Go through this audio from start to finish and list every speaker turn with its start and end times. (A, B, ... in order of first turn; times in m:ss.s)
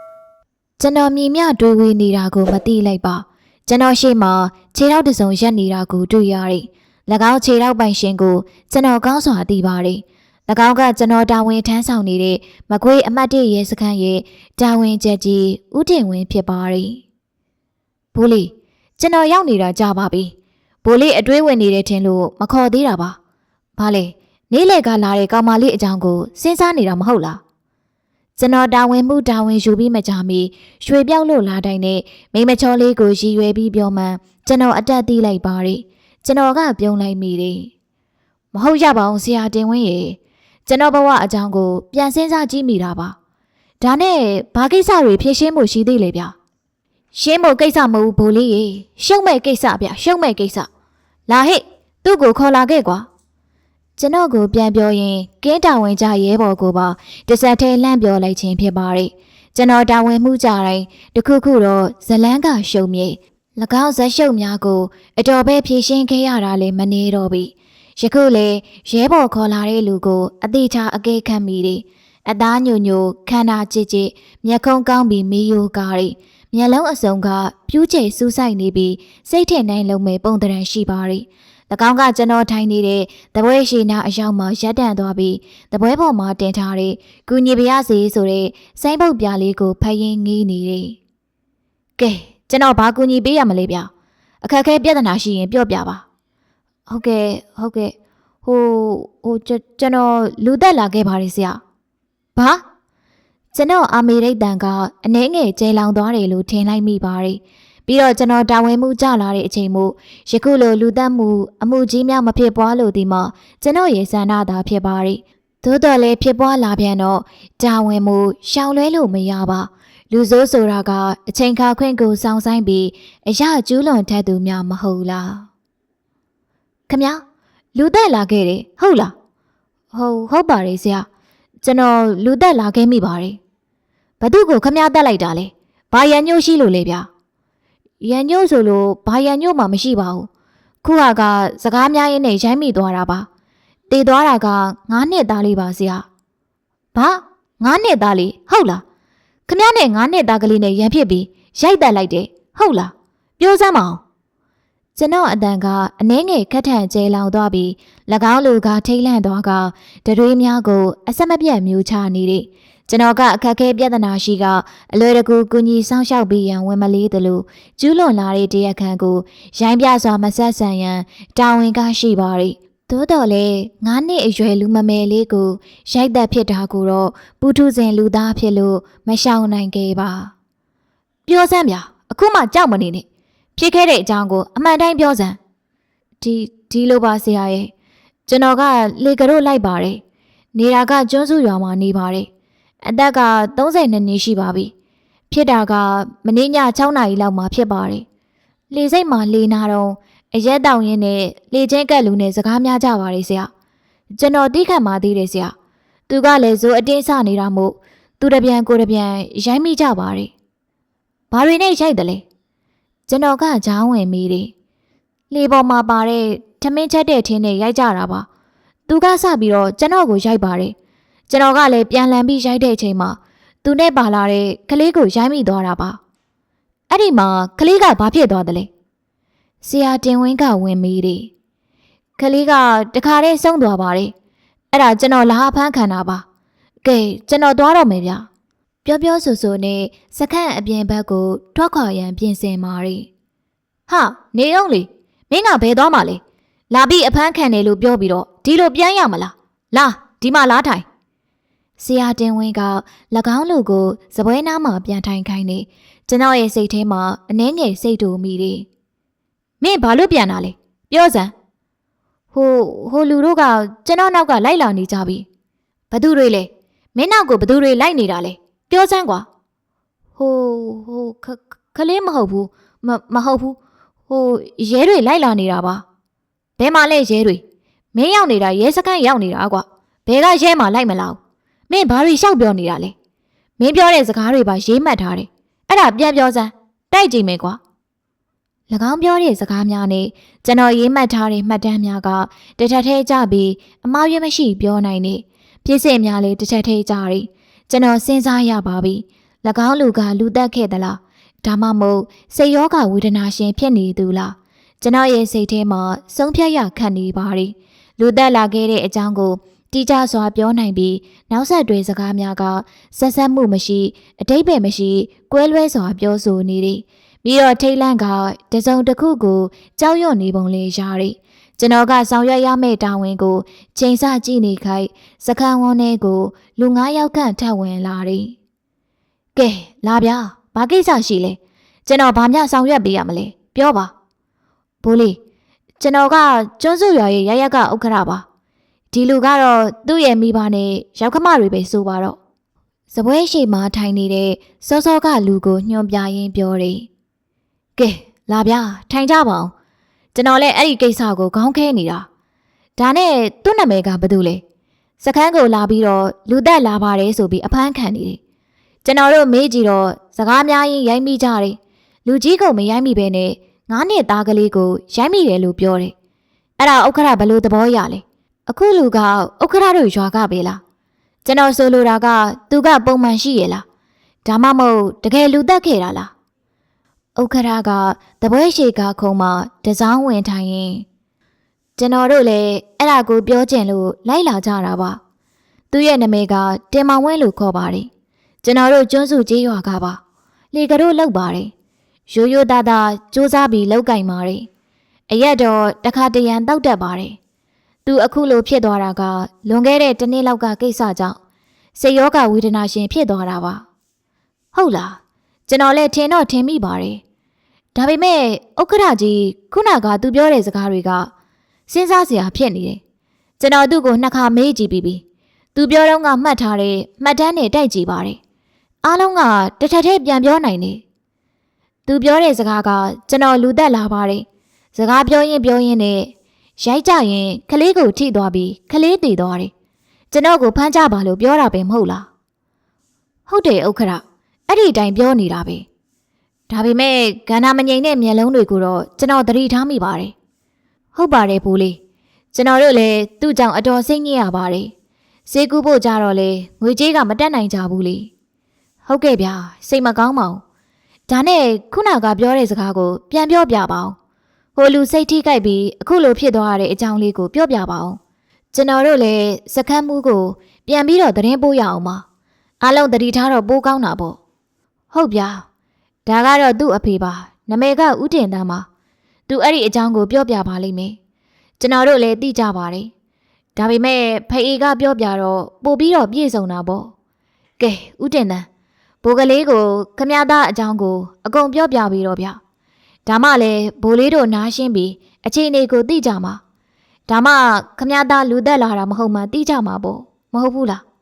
0:00.8-0:17.0 A
0:18.1-0:23.2 A
0:23.8-0:27.4 A
0:28.4-0:37.7 A
0:38.5-0:43.2 A
0:43.8-0:46.3 A
0:47.1-0:50.7 A
0:51.3-0:53.1 A
0:54.0-1:31.0 A
1:32.0-1:33.9 A
1:34.4-1:36.0 A
1:36.9-1:41.6 A
1:42.4-1:42.6 A
1:43.5-2:05.5 A
2:06.9-2:07.2 A
2:07.8-2:09.1 A
2:09.9-2:11.1 A
2:11.6-2:13.4 A
2:14.2-2:17.1 A
2:18.0-2:20.3 A
2:20.8-2:23.3 A
2:23.9-2:26.1 A
2:26.9-2:28.8 A
2:29.5-2:34.0 A
2:35.0-3:00.3 A
3:01.3-3:03.0 A
3:03.6-3:05.4 A
3:06.2-3:07.7 A
3:08.3-3:10.0 A
3:10.5-3:12.3 A
3:12.8-3:14.7 A
3:15.3-3:18.1 A
3:18.7-3:23.5 A
3:24.1-3:25.5 A
3:26.1-3:30.3 A
3:31.3-3:32.2 A
3:33.1-3:34.5 A
3:35.3-3:38.3 A
3:38.9-3:40.8 A
3:41.3-3:46.0 A
3:46.9-3:48.7 A
3:49.6-3:51.3 A
3:52.2-3:54.1 A
3:54.7-3:56.2 A
3:56.8-3:58.3 A
3:58.8-4:03.1 A
4:03.9-4:10.8 A
4:11.8-4:18.7 A
4:19.6-4:21.3 A
4:22.3-4:25.3 A
4:25.9-4:29.3 A
4:30.2-4:35.8 A
4:36.6-4:37.4 A
4:37.9-4:42.9 A
4:43.6-4:47.6 A
4:48.7-5:28.4 A
5:29.4-5:33.9 A
5:34.8-5:35.2 A
5:35.8-5:38.2 A
5:38.9-5:42.2 A
5:42.9-5:46.9 A
5:47.8-5:49.5 A
5:50.2-5:52.1 A
5:52.8-5:54.4 A
5:55.0-5:58.2 A
5:58.8-6:05.9 A
6:06.6-6:10.6 A
6:11.2-6:13.6 A
6:14.2-6:16.1 A
6:17.2-6:20.9 A
6:21.8-6:25.0 A
6:25.7-6:27.9 A
6:28.4-6:30.0 A
6:30.5-6:31.5 A
6:32.1-6:34.5 A
6:35.1-6:37.2 A
6:37.9-6:41.2 A
6:41.8-6:43.6 A
6:44.5-6:47.0 A
6:47.8-6:51.1 A
6:51.7-6:52.8 A
6:53.4-6:55.0 A
6:55.6-6:58.2 A
6:58.8-7:00.8 A
7:01.9-7:09.5 A
7:10.1-7:12.1 A
7:13.3-7:15.7 A
7:16.5-7:20.1 A
7:20.9-7:21.8 A
7:22.3-7:24.7 A
7:25.3-7:28.1 A
7:28.8-7:30.4 A
7:31.1-7:34.0 A
7:34.6-7:38.0 A
7:38.5-7:42.0 A
7:42.6-7:44.2 A
7:44.9-7:45.4 A
7:46.1-7:48.7 A
7:49.3-7:51.0 A
7:51.6-7:52.9 A
7:53.6-7:56.9 A
7:57.6-7:58.5 A
7:59.0-8:02.4 A
8:03.1-8:06.4 A
8:07.1-8:10.8 A